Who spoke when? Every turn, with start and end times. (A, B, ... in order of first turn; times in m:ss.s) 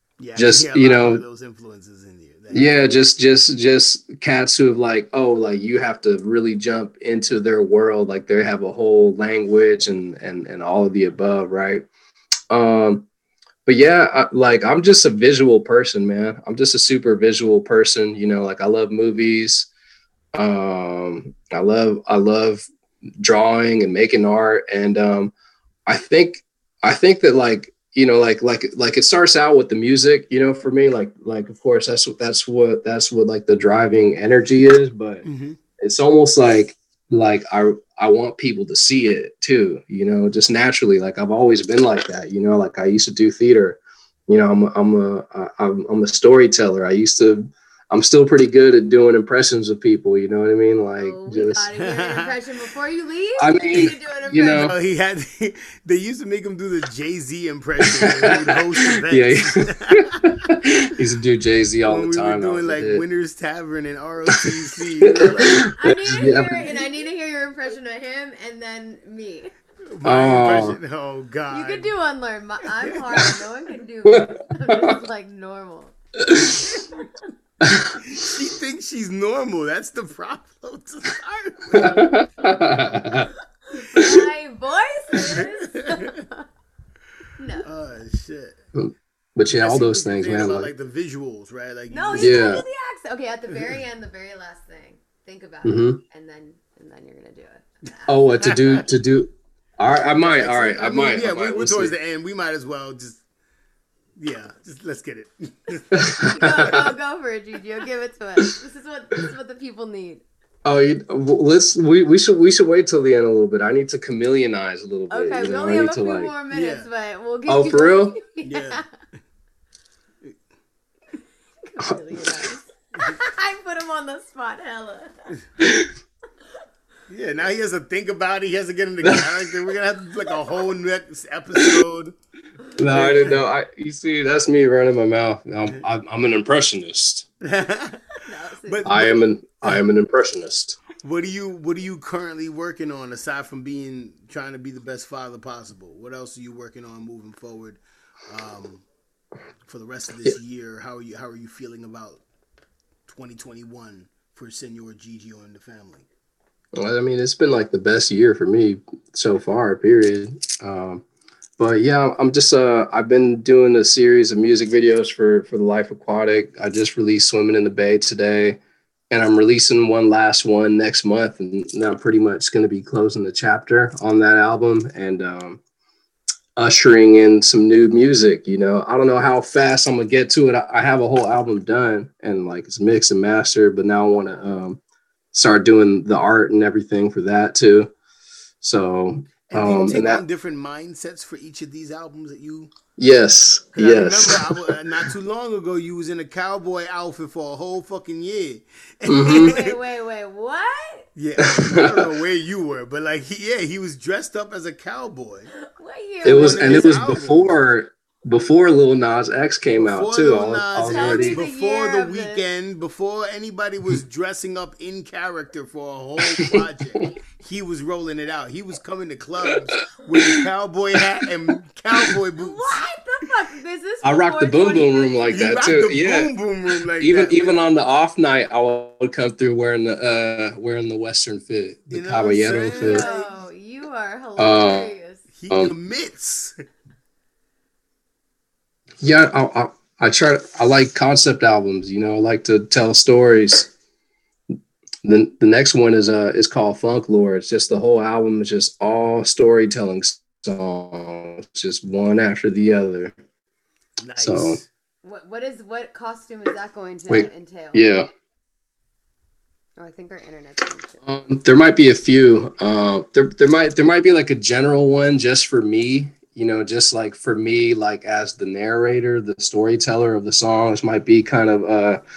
0:00.2-0:02.8 A
0:00.4-0:01.2 B
0:02.5-0:11.9 B
0:12.5-0:13.0 B
0:13.7-0:19.7 B
0:20.3-0:22.7 B
0:23.2-0:25.3 B
0:25.9-0:35.2 B
0:35.2-0:35.6 A
0:35.8-0:51.7 B
0:51.0-0:54.7 C
0:51.8-0:52.4 A
0:53.4-0:54.7 B
0:54.5-1:00.2 A
0:58.0-1:03.0 B
1:01.9-1:05.7 A
1:05.1-1:06.7 B
1:05.4-1:09.5 C
1:09.9-1:11.9 A
1:10.0-1:10.8 B
1:11.5-1:17.1 C
1:12.8-1:13.3 A
1:14.1-1:15.0 B
1:16.3-1:16.6 B
1:17.6-1:18.0 B
1:17.7-1:22.2 A
1:21.8-1:23.3 B
1:23.7-1:26.5 C
1:24.0-1:24.2 B
1:25.2-1:26.2 A
1:27.4-1:27.7 C
1:27.6-1:28.6 A
1:28.8-1:30.7 B
1:29.5-1:32.5 A
1:31.9-1:38.4 C
1:32.2-1:32.6 B
1:35.6-1:36.0 B
1:38.1-1:41.9 B
1:38.4-1:38.8 A
1:40.2-1:43.2 A
1:40.4-1:41.0 C
1:44.2-1:46.4 A
1:46.0-1:46.9 B
1:46.2-1:50.2 C
1:50.6-1:56.3 B
1:55.1-1:58.8 C
1:56.5-1:56.9 A
1:57.5-1:58.2 B
1:58.4-1:58.8 A
2:01.6-2:05.1 C
2:05.6-2:05.9 B
2:07.1-2:12.1 A
2:09.0-2:09.5 B
2:11.6-2:11.8 B
2:12.8-2:17.3 B
2:12.9-2:13.4 A
2:17.4-2:19.2 A
2:18.3-2:19.0 C
2:18.8-2:20.8 B
2:21.0-2:28.8 A
2:29.6-2:32.2 A
2:33.1-2:36.1 A
2:36.8-2:41.0 B
2:41.6-2:48.6 B
2:49.1-2:55.6 B
2:56.6-3:04.8 B
3:05.3-3:07.9 B
3:08.6-3:10.2 B
3:09.5-3:12.7 A
3:13.0-3:14.7 B
3:13.7-3:19.8 A
3:19.1-3:19.5 B
3:19.3-3:21.1 C
3:21.2-3:25.5 A
3:21.5-3:22.0 B
3:25.6-3:27.2 C
3:26.2-3:31.4 B
3:26.3-3:27.6 A
3:29.8-3:42.8 A
3:30.8-3:32.4 C
3:36.3-3:37.1 B
3:40.2-3:40.4 B
3:42.4-3:45.7 C
3:44.0-3:46.3 B
3:45.3-3:47.6 A
3:47.0-3:53.0 B
3:51.9-3:53.3 A
3:52.7-3:55.2 C
3:54.4-3:54.9 B
3:55.3-3:56.6 A
3:59.0-4:03.7 B
4:05.0-4:13.1 B
4:14.0-4:14.7 A
4:14.2-4:14.6 B
4:15.0-4:17.9 C
4:17.1-4:18.1 B
4:19.8-4:21.0 C
4:21.0-4:32.0 B